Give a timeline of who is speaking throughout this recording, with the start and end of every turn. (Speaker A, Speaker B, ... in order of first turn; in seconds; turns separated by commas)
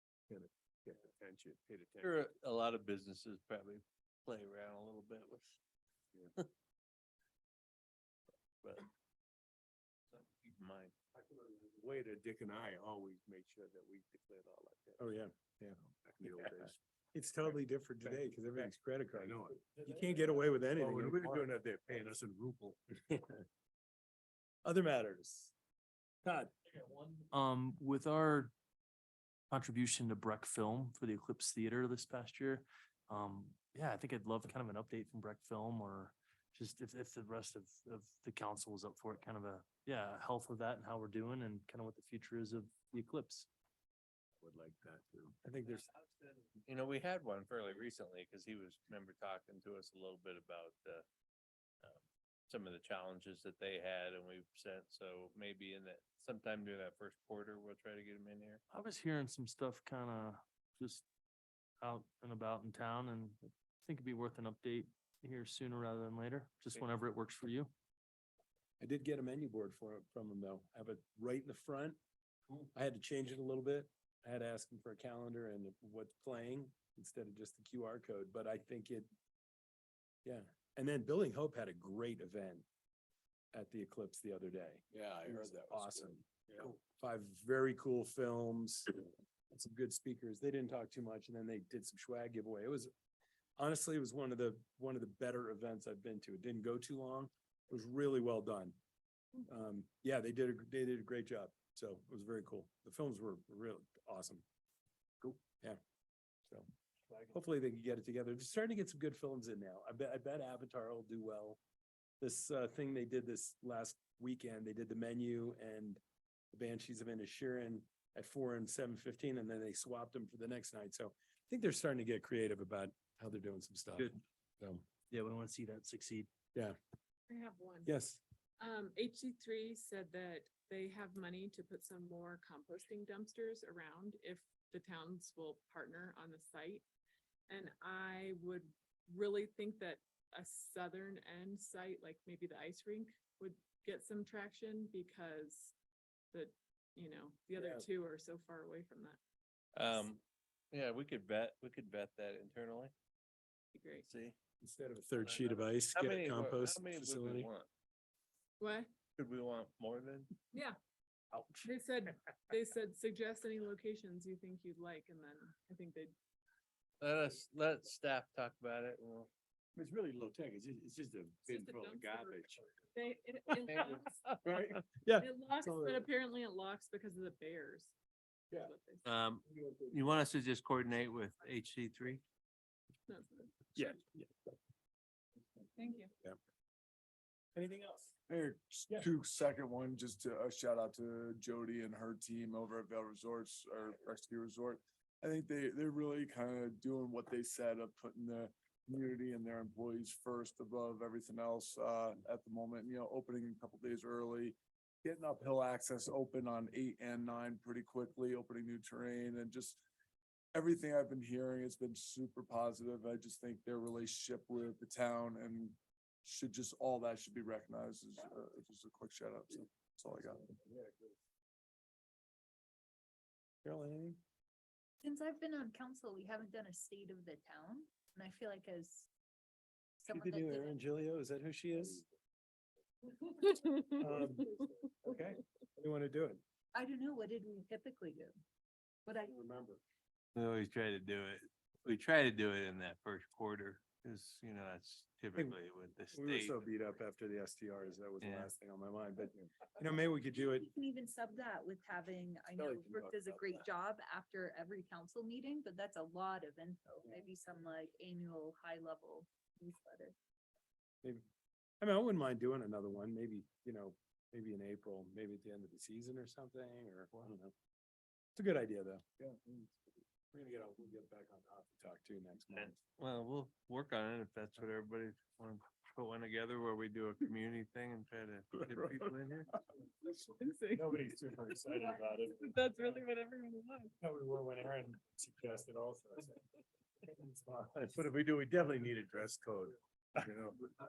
Speaker A: 0.3-2.3, Speaker B: 2.0-5.6, Speaker B: 8.6-8.9, Speaker B: 10.1-10.9, Speaker A: 11.2-15.0, Speaker C: 15.0-21.5, Speaker A: 15.9-16.8, Speaker A: 18.0-19.6, Speaker A: 20.2-23.0, Speaker C: 24.6-25.5, Speaker C: 26.2-26.5, Speaker D: 27.3-28.5, Speaker D: 29.5-43.5, Speaker A: 44.4-45.2, Speaker C: 45.4-45.9, Speaker B: 45.6-51.0, Speaker B: 51.8-58.6, Speaker D: 58.7-61.0, Speaker D: 61.8-67.7, Speaker C: 68.8-72.0, Speaker C: 72.7-79.1, Speaker C: 80.2-82.7, Speaker C: 83.5-92.9, Speaker C: 93.6-98.8, Speaker C: 99.5-104.4, Speaker C: 105.2-105.8, Speaker C: 107.3-111.6, Speaker C: 112.2-116.0, Speaker C: 116.5-124.8, Speaker D: 125.1-126.3, Speaker E: 127.3-127.9, Speaker C: 127.8-128.2, Speaker E: 128.6-136.8, Speaker E: 137.5-145.7, Speaker E: 146.3-149.2, Speaker C: 147.6-147.8, Speaker B: 149.8-150.2, Speaker B: 150.7-152.9, Speaker E: 153.7-154.1, Speaker B: 154.0-154.3, Speaker C: 154.6-157.5, Speaker B: 155.4-157.7, Speaker E: 158.6-158.9, Speaker B: 159.2-160.3, Speaker E: 161.6-166.1, Speaker B: 167.0-169.3, Speaker A: 169.8-172.6, Speaker E: 171.4-174.3, Speaker C: 174.4-176.1, Speaker E: 175.2-177.9, Speaker E: 178.6-179.0, Speaker B: 179.0-182.2, Speaker E: 183.1-183.8, Speaker C: 183.8-184.3, Speaker E: 185.8-186.1, Speaker F: 188.3-209.8, Speaker F: 210.5-220.5, Speaker C: 223.6-224.2, Speaker G: 225.0-229.1, Speaker G: 230.0-230.8, Speaker C: 230.1-232.1, Speaker E: 233.4-234.0, Speaker C: 233.9-236.4, Speaker G: 236.7-238.3, Speaker G: 239.1-239.3, Speaker C: 239.3-239.8, Speaker B: 240.3-246.9, Speaker C: 246.1-250.7, Speaker B: 248.2-248.5, Speaker G: 250.3-260.1, Speaker C: 261.8-267.5, Speaker C: 268.3-269.0, Speaker C: 270.3-272.8, Speaker B: 272.5-279.5, Speaker E: 280.1-283.9, Speaker C: 280.7-282.4, Speaker C: 284.0-286.4, Speaker C: 287.1-287.9, Speaker A: 287.9-289.7